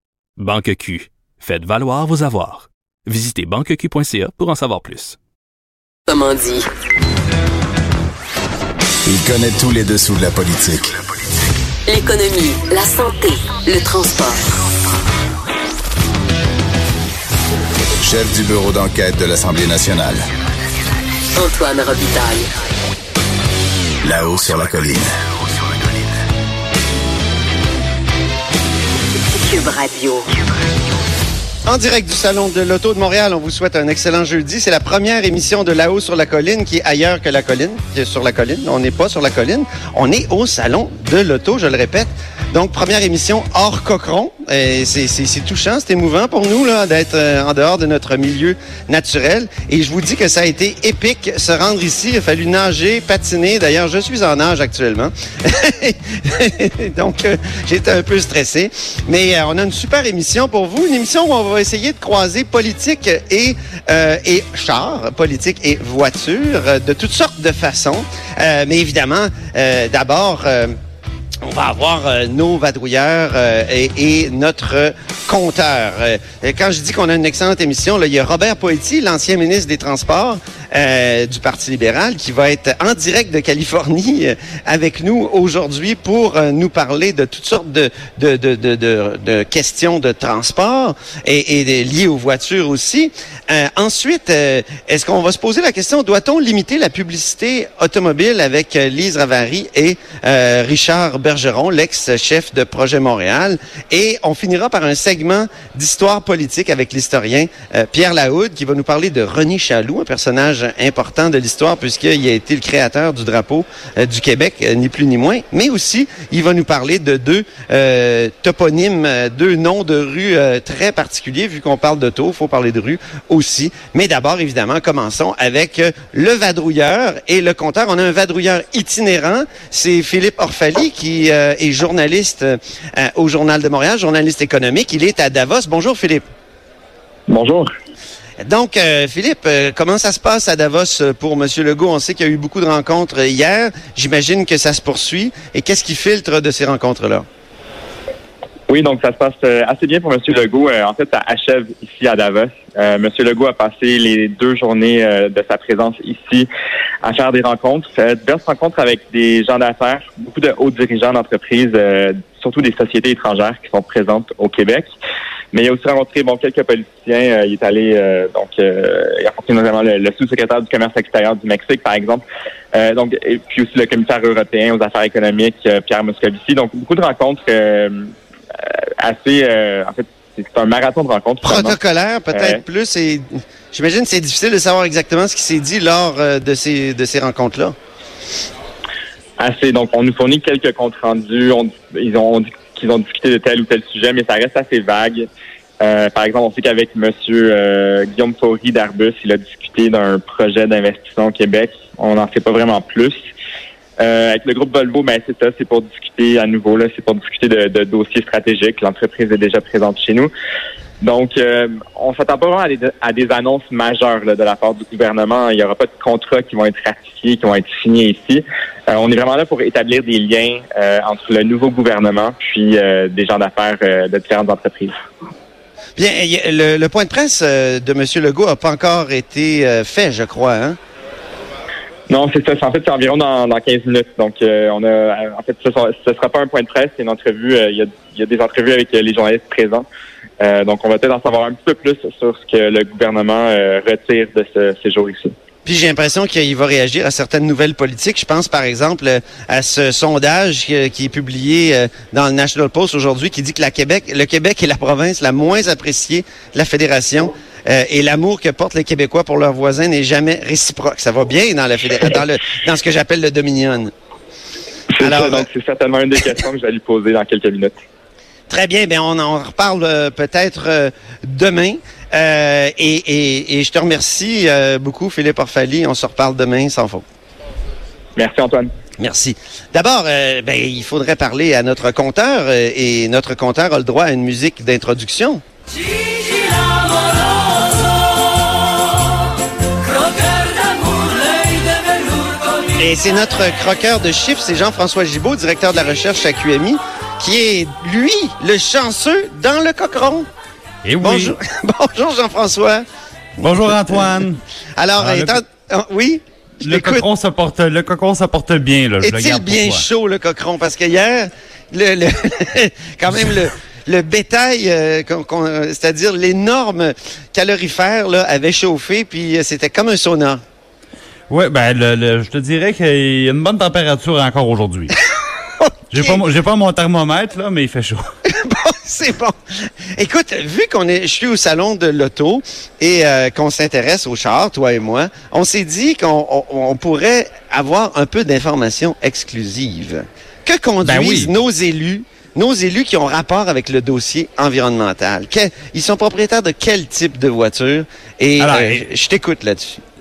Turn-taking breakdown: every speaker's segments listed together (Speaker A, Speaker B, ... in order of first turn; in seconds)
Speaker A: 0.4-5.2
Speaker B: 6.1-6.7, 11.9-14.4, 21.4-22.5, 29.3-30.2
Speaker C: 9.1-10.9, 18.0-20.2, 24.0-25.1
Speaker D: 31.7-70.7, 71.4-136.2, 138.4-147.2, 181.4-187.8, 226.0-230.8, 245.7-263.9, 265.0-265.5, 268.5-277.0, 279.0-285.4, 292.8-300.3, 301.0-302.8, 303.5-304.0, 304.8-307.1, 309.0-320.4, 328.3-329.4, 329.9-349.8
Speaker E: 137.3-137.7, 148.7-156.5, 157.0-164.9, 165.5-172.2, 172.8-181.8, 182.3-182.6, 189.4-195.3, 195.8-203.2, 204.0-210.3, 211.0-224.9, 232.1-239.9, 240.4-245.3, 265.0-267.7, 278.2-278.7
Speaker F: 300.9-301.4, 303.4-304.4, 304.9-305.4, 306.6-309.9, 321.3-324.9, 325.9-328.0, 340.8-341.4, 348.4-348.9